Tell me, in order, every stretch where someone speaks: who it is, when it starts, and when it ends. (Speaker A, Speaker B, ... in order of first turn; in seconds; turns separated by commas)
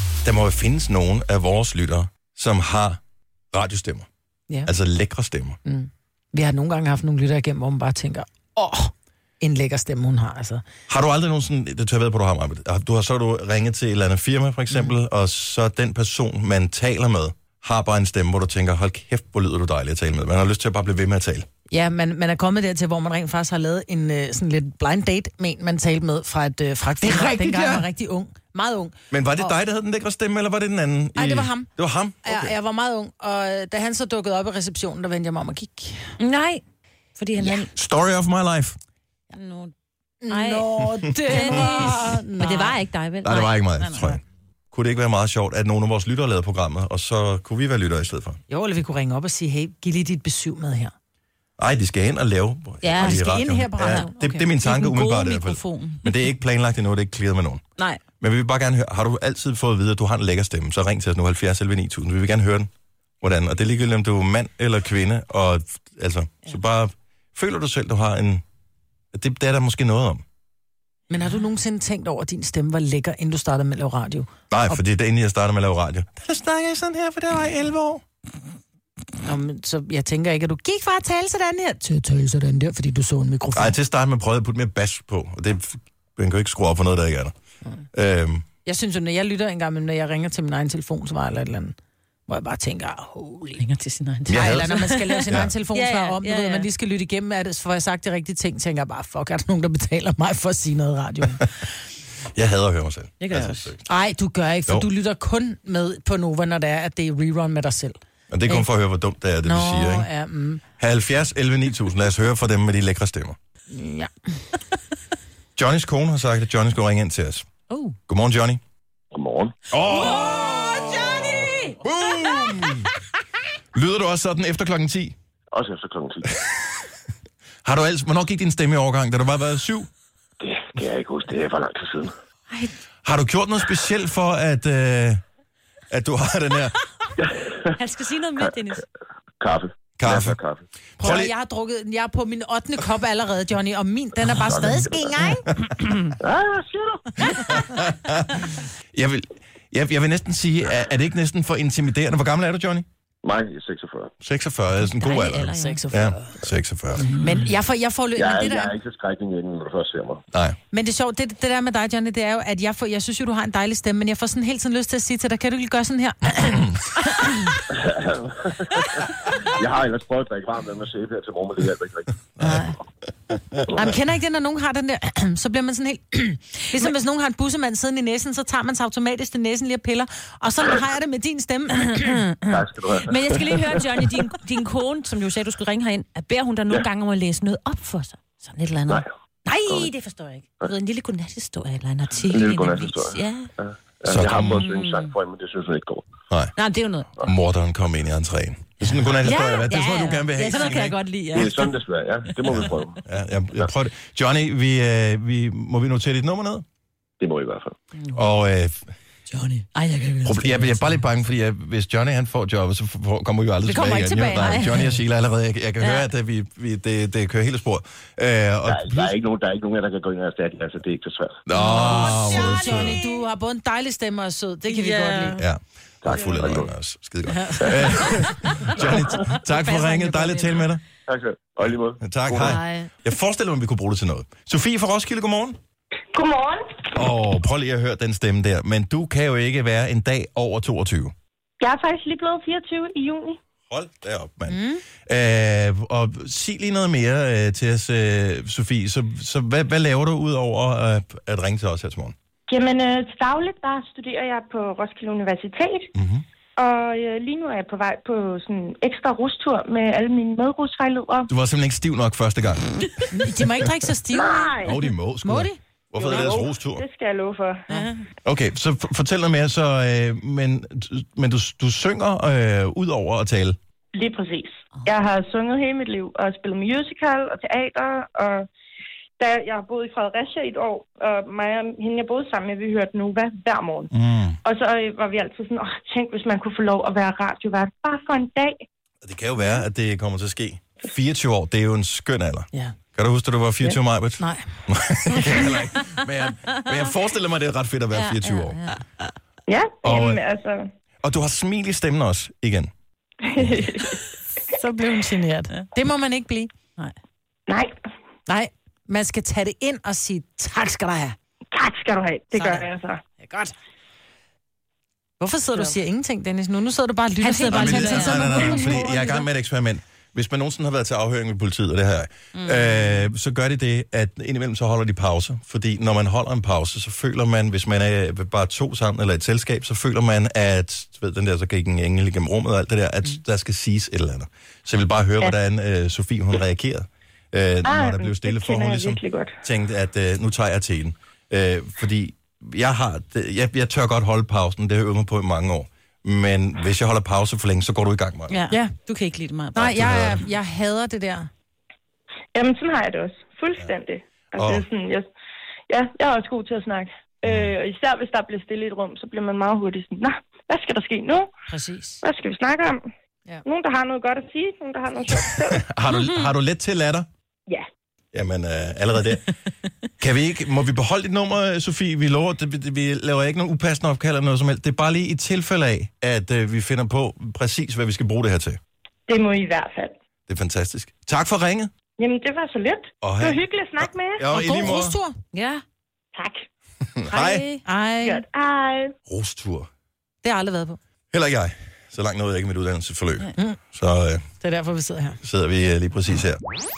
Speaker A: 0.2-3.0, Speaker A: 3.5-4.1, Speaker A: 4.6-5.6, Speaker B: 5.6-10.6, Speaker A: 10.9-21.4, Speaker B: 21.7-29.5, Speaker A: 27.0-27.9, Speaker A: 29.1-32.5, Speaker B: 31.1-31.7, Speaker B: 32.2-36.1, Speaker C: 36.2-36.6, Speaker C: 37.1-37.7, Speaker A: 37.4-38.8, Speaker C: 39.3-39.7, Speaker B: 40.2-42.8, Speaker C: 40.3-44.2, Speaker A: 43.2-48.4, Speaker B: 48.5-50.9, Speaker A: 51.6-57.6, Speaker C: 52.8-53.3, Speaker B: 53.0-54.5, Speaker C: 53.8-54.1, Speaker C: 54.6-56.1, Speaker A: 58.2-62.7, Speaker A: 63.2-68.4, Speaker A: 69.1-70.2, Speaker B: 71.1-74.8, Speaker A: 74.5-78.0, Speaker B: 79.2-83.8, Speaker A: 83.5-87.3, Speaker A: 87.9-88.4, Speaker B: 88.6-91.8, Speaker B: 92.3-93.7, Speaker C: 93.6-96.7, Speaker A: 94.3-94.7, Speaker B: 94.3-101.6, Speaker A: 95.3-95.5, Speaker A: 102.3-103.8, Speaker C: 103.2-103.7, Speaker B: 103.8-108.7, Speaker A: 108.3-110.1, Speaker B: 109.4-110.6, Speaker A: 110.8-113.3, Speaker B: 113.7-114.1, Speaker A: 115.6-117.5, Speaker A: 118.1-118.6, Speaker D: 119.1-119.6, Speaker A: 119.7-122.9, Speaker B: 121.2-121.5, Speaker A: 123.7-125.1, Speaker D: 125.5-126.3, Speaker A: 127.6-129.9, Speaker D: 130.4-132.1, Speaker A: 133.0-135.2, Speaker A: 135.9-136.8, Speaker C: 137.7-138.8, Speaker D: 139.4-140.6, Speaker A: 140.0-140.4, Speaker B: 141.0-145.4, Speaker A: 141.0-141.3, Speaker D: 144.4-145.1, Speaker C: 145.1-145.4, Speaker D: 146.2-147.5, Speaker A: 147.3-152.8, Speaker D: 153.2-154.1, Speaker A: 154.2-157.1, Speaker C: 154.9-155.8, Speaker B: 155.5-156.3, Speaker B: 157.0-158.7, Speaker C: 157.1-157.4, Speaker D: 158.2-160.2, Speaker A: 160.3-160.6, Speaker B: 160.7-166.8, Speaker D: 167.7-172.2, Speaker B: 172.4-172.7, Speaker B: 173.7-182.5, Speaker D: 182.4-183.8, Speaker C: 183.0-193.5, Speaker D: 192.3-196.1, Speaker A: 194.0-194.6, Speaker C: 194.5-195.1, Speaker C: 196.6-197.2, Speaker A: 197.2-201.0, Speaker C: 198.9-201.8, Speaker D: 201.3-203.0, Speaker A: 202.5-206.6, Speaker D: 207.2-207.7, Speaker A: 208.1-208.9, Speaker C: 209.3-210.7, Speaker A: 210.2-219.2, Speaker B: 213.6-214.8, Speaker C: 214.4-214.8, Speaker C: 215.8-216.1, Speaker D: 218.7-221.4, Speaker A: 221.4-223.0, Speaker B: 221.5-225.4, Speaker C: 221.6-223.2, Speaker C: 224.7-225.4, Speaker A: 225.4-230.8, Speaker D: 226.0-226.7, Speaker C: 226.1-226.5, Speaker B: 227.3-228.7, Speaker D: 227.6-227.9, Speaker C: 228.2-228.7, Speaker C: 229.5-230.6, Speaker D: 231.1-232.6, Speaker A: 231.7-235.6, Speaker C: 232.4-232.9, Speaker E: 236.1-236.9, Speaker A: 236.9-241.1, Speaker E: 241.6-243.4, Speaker A: 243.7-252.1, Speaker B: 244.5-244.8, Speaker E: 252.5-255.9, Speaker A: 255.9-256.2, Speaker E: 256.6-261.3, Speaker A: 261.3-262.9, Speaker B: 263.1-265.6, Speaker E: 264.1-264.8, Speaker A: 264.6-266.8, Speaker E: 266.0-267.6, Speaker C: 267.7-268.0, Speaker A: 268.2-273.6, Speaker E: 273.9-278.5, Speaker E: 279.2-283.9, Speaker A: 283.9-284.4, Speaker E: 284.4-288.6, Speaker A: 289.0-298.6, Speaker B: 294.2-294.4, Speaker B: 295.1-295.4, Speaker C: 297.9-299.0, Speaker E: 299.5-300.7, Speaker A: 299.8-300.2, Speaker A: 301.0-302.7, Speaker E: 303.3-304.0, Speaker A: 303.4-303.7, Speaker B: 304.5-306.5, Speaker E: 307.5-307.8, Speaker B: 308.3-311.1, Speaker E: 311.5-313.0, Speaker B: 312.3-312.7, Speaker B: 313.2-313.5, Speaker B: 315.2-319.0, Speaker C: 317.2-318.9, Speaker A: 317.5-348.4, Speaker E: 337.7-339.4, Speaker C: 348.3-349.7, Speaker B: 348.5-348.8, Speaker B: 349.5-351.3, Speaker A: 349.6-350.2, Speaker E: 352.3-355.1, Speaker A: 354.4-354.6, Speaker E: 355.7-361.3, Speaker A: 357.2-357.6, Speaker B: 361.5-362.0, Speaker E: 362.0-362.8, Speaker E: 363.4-365.6, Speaker A: 365.5-367.1, Speaker A: 368.1-369.3, Speaker A: 370.0-378.6, Speaker E: 379.1-379.9, Speaker A: 380.3-381.7, Speaker E: 382.0-384.2, Speaker A: 383.0-385.0, Speaker B: 384.3-385.2, Speaker C: 385.3-385.6, Speaker E: 386.1-386.4, Speaker A: 386.9-387.5, Speaker C: 387.1-387.7, Speaker B: 387.6-388.2, Speaker E: 388.0-388.9, Speaker A: 389.1-389.7, Speaker B: 390.2-390.8, Speaker A: 391.1-394.2, Speaker B: 394.4-395.2, Speaker A: 395.2-396.4